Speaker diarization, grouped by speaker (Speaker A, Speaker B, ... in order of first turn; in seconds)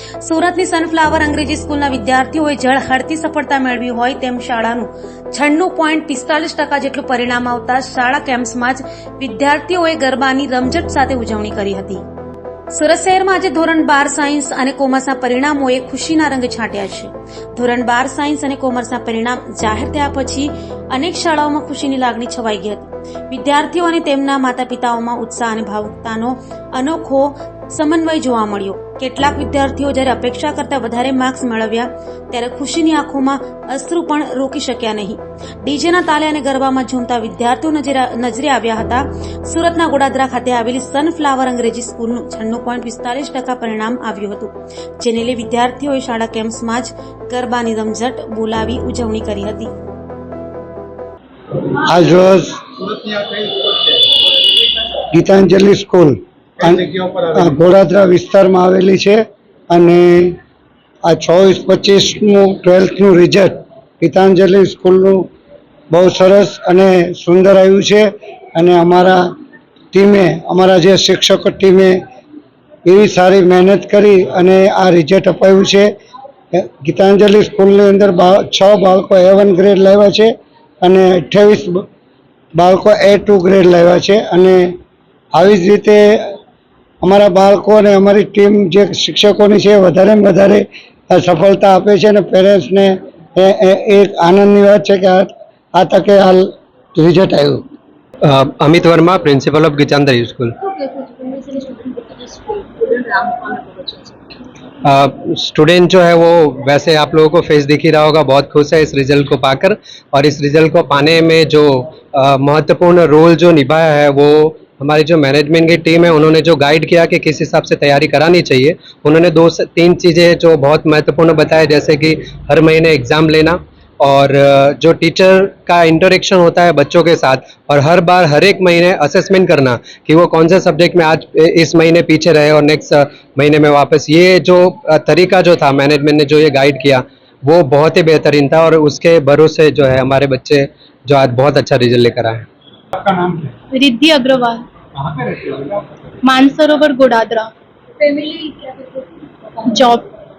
Speaker A: 0.2-12.0, 12.7-49.7
Speaker B: 51.9-52.6, 55.1-56.8, 57.4-60.4, 61.1-65.3, 65.9-69.2, 69.9-72.0, 72.9-75.9, 76.5-81.8, 82.5-84.7, 85.3-86.3, 87.0-97.6
Speaker C: 52.7-54.0, 56.6-57.6, 142.9-143.5, 144.9-145.9
Speaker D: 98.2-100.5, 104.8-142.4
Speaker E: 100.6-104.2, 148.0-149.9
Speaker F: 143.7-144.6, 146.2-147.5, 149.7-150.0